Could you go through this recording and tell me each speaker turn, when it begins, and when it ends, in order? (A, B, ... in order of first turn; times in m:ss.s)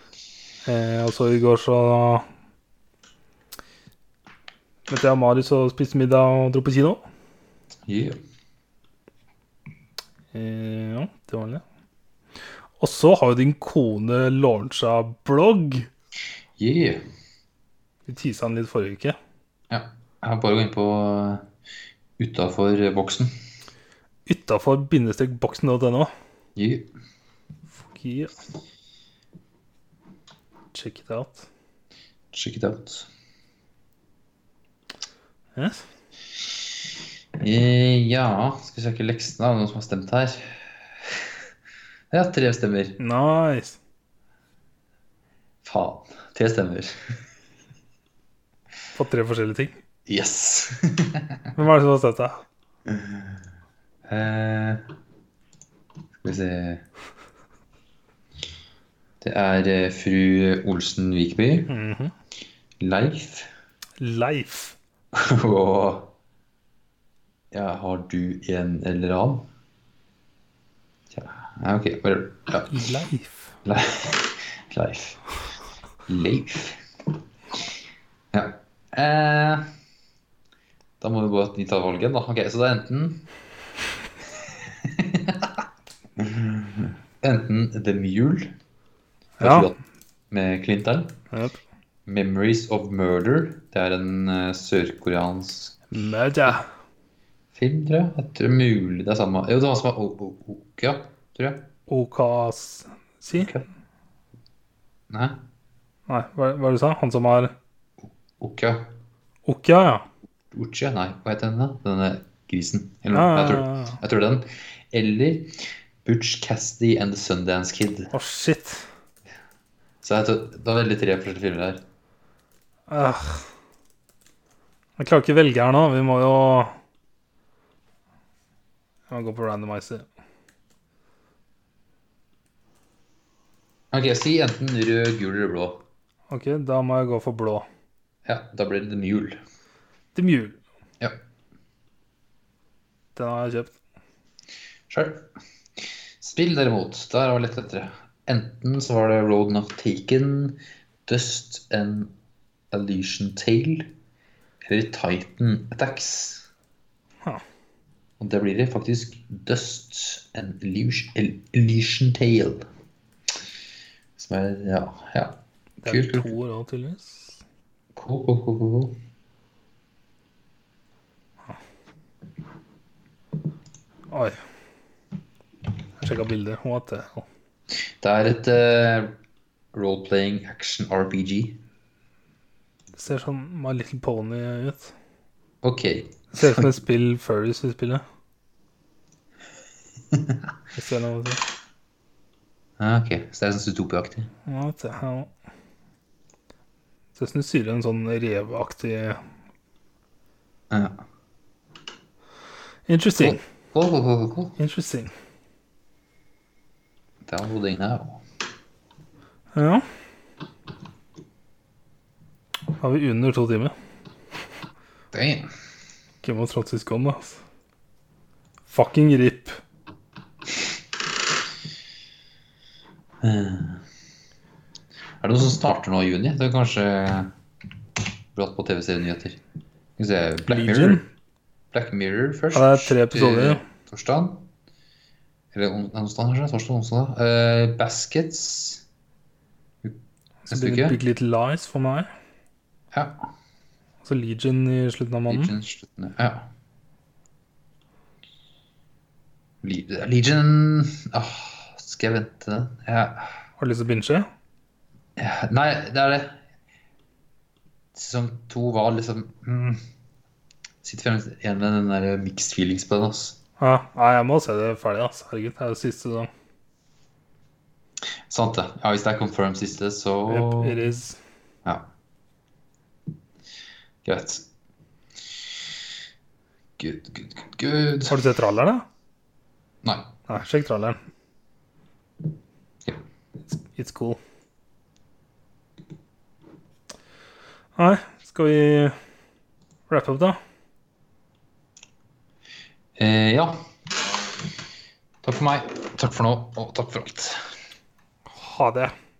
0:00.6-0:02.2 A
0:04.9-0:07.0 A
0:07.8-0:08.2 B
0:10.3-0:11.6 A
0:12.8-0:15.9 A
0:16.6-0:17.0 B
0:18.1-0:19.2 A
0:19.7-0:21.5 B
0:22.2-0:23.3 B
0:24.3-0:26.1 A
0:26.6-0:26.9 B
0:27.8-0:28.4 A
0:30.7-0:31.5 A
0:32.3-0:33.1 B
0:35.6-0:35.8 A
0:37.4-0:41.4 B
0:42.1-0:43.0 B
0:43.0-0:43.8 A
0:45.6-0:47.2 B
0:48.9-0:49.7 A
0:50.0-0:51.5 B
0:51.6-0:52.4 A
0:52.9-0:53.3 B
0:54.1-0:54.8 B
0:56.2-0:56.8 B
0:59.2-1:01.7 B
1:01.7-1:02.1 A
1:02.8-1:03.5 B
1:04.0-1:04.8 A
1:05.1-1:06.1 B
1:07.5-1:09.5 B
1:11.1-1:12.7 B
1:12.7-1:13.6 A
1:13.6-1:15.2 B
1:16.1-1:17.1 B
1:18.3-1:19.7 B
1:21.0-1:23.3 B
1:24.3-1:25.6 B
1:26.2-1:28.6 B
1:29.4-1:29.7 A
1:29.4-1:29.8 B
1:30.3-1:31.2 B
1:31.3-1:31.6 A
1:32.0-1:35.8 B
1:35.9-1:36.6 A
1:37.5-1:41.7 B
1:41.9-1:43.5 A
1:43.4-1:43.6 B
1:45.1-1:45.4 B
1:46.1-1:47.5 A
1:48.0-1:48.9 B
1:49.4-1:50.1 A
1:50.5-1:58.1 B
1:53.1-1:54.0 A
1:58.1-1:58.9 A
2:00.0-2:01.8 B
2:02.9-2:03.5 A
2:05.0-2:06.8 A
2:09.1-2:10.1 A
2:13.9-2:15.8 B
2:16.3-2:17.6 A
2:18.2-2:19.4 B
2:20.1-2:20.6 A
2:23.2-2:23.7 A
2:24.9-2:32.1 B
2:32.7-2:33.9 B
2:34.7-2:36.5 B
2:38.2-2:42.6 B
2:44.2-2:46.3 B
2:45.8-2:47.4 A
2:47.9-2:49.0 B
2:54.1-2:54.4 A
2:56.0-2:57.2 A
2:58.0-2:59.2 B
2:59.7-3:01.6 B
3:03.0-3:04.9 A
3:05.6-3:06.7 B
3:06.3-3:08.0 A
3:10.1-3:10.4 B
3:10.7-3:11.4 A
3:12.8-3:14.3 B
3:14.4-3:15.3 A
3:17.2-3:19.2 A
3:20.7-3:21.0 B
3:22.9-3:23.4 A
3:23.2-3:24.6 B
3:24.6-3:25.1 A
3:27.2-3:28.2 B
3:29.5-3:29.8 A
3:32.8-3:33.7 A
3:35.1-3:35.5 B
3:36.2-3:37.4 A
3:38.7-3:39.6 A
3:43.2-3:43.8 B
3:45.2-3:47.3 B
3:48.3-3:49.4 B
3:50.0-3:51.0 B
3:50.5-3:51.0 A
3:51.7-3:54.5 B
3:52.5-3:53.6 A
3:55.5-3:58.8 B
3:59.8-4:01.0 B
4:00.4-4:02.1 A
4:02.9-4:03.3 B
4:04.0-4:05.5 A
4:05.3-4:06.5 B
4:09.6-4:13.4 B
4:13.6-4:14.3 A
4:15.2-4:16.4 B
4:17.9-4:19.8 B
4:20.8-4:23.4 B
4:23.6-4:26.3 A
4:28.3-4:30.8 B
4:30.3-4:31.2 A
4:34.0-4:34.4 B
4:36.8-4:38.2 B
4:38.0-4:38.8 A
4:39.8-4:40.1 B
4:40.3-4:41.0 A
4:43.5-4:44.2 A
4:47.8-4:49.0 A
4:49.9-4:50.4 A
4:53.0-4:53.6 B
4:55.2-4:57.4 B
4:58.4-4:58.9 A